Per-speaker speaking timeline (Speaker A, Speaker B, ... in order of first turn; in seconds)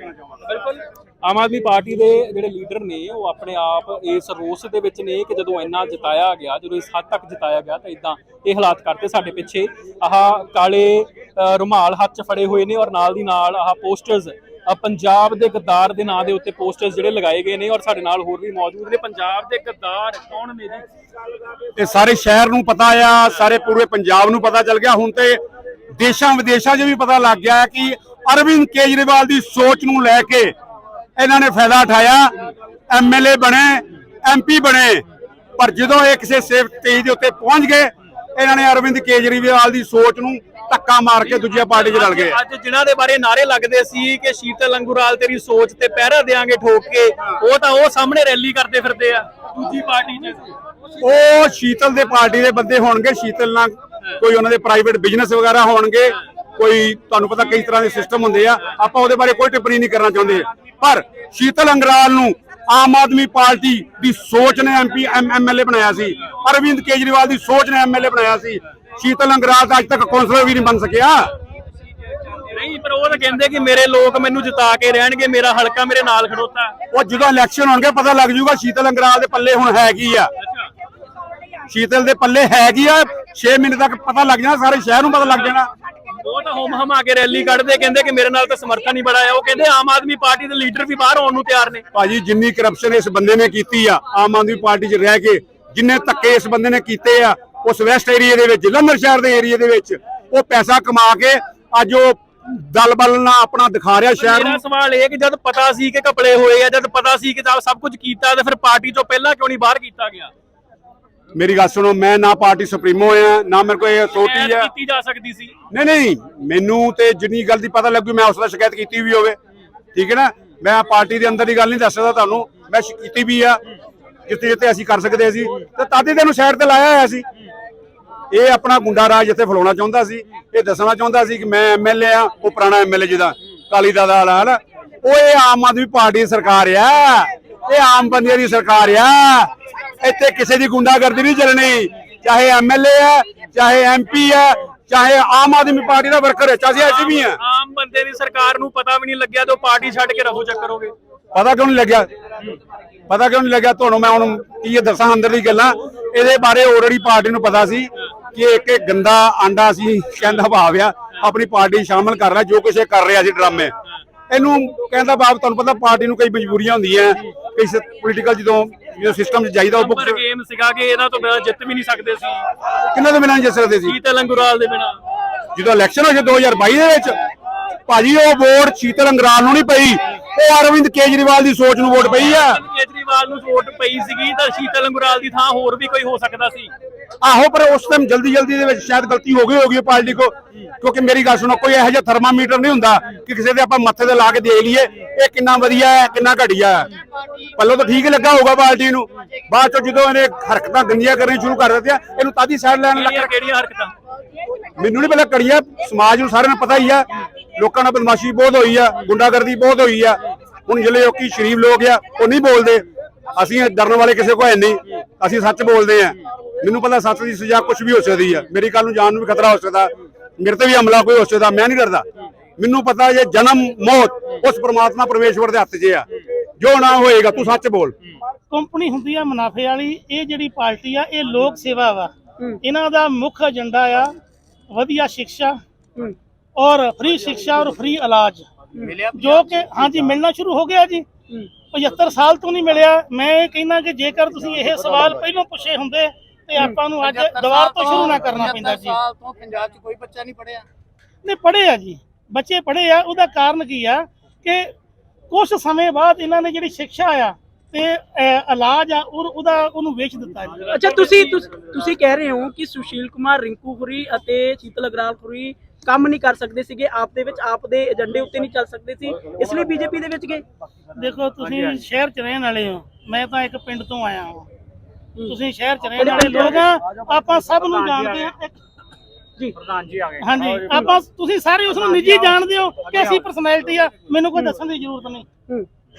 Speaker A: 0.5-20.9, 41.2-50.5, 72.5-76.8, 80.4-80.7, 86.2-91.8, 104.2-110.3, 114.1-115.5, 146.8-150.9, 169.8-172.4, 173.8-175.0, 182.0-186.7, 202.9-203.9, 260.6-261.3
Speaker B: 21.8-25.4, 25.9-30.5, 31.2-32.3, 32.9-35.0, 35.6-42.4, 51.0-71.3, 76.9-80.3, 81.7-85.7, 91.9-104.6, 111.3-114.7, 115.7-119.4, 120.0-123.6, 124.3-127.2, 128.3-139.5, 140.0-147.4, 151.3-152.1, 153.1-163.7, 164.3-170.2, 172.9-173.9, 175.5-177.1, 177.9-182.6, 187.2-196.9, 197.6-203.4, 204.8-207.0, 207.6-222.0, 222.6-226.0, 226.6-227.9
Speaker C: 228.5-232.1, 232.6-234.1, 234.7-235.6, 236.6-238.5, 239.1-241.0, 241.7-249.0, 251.2-254.7, 255.3-260.6, 271.0-274.5, 275.3-278.5, 280.2-285.3
Speaker D: 238.8-239.0, 246.5-246.8, 260.7-270.4, 275.9-276.6
Speaker E: 238.8-240.2, 244.3-245.2, 247.0-250.7, 277.8-278.1, 279.7-280.1, 281.9-282.3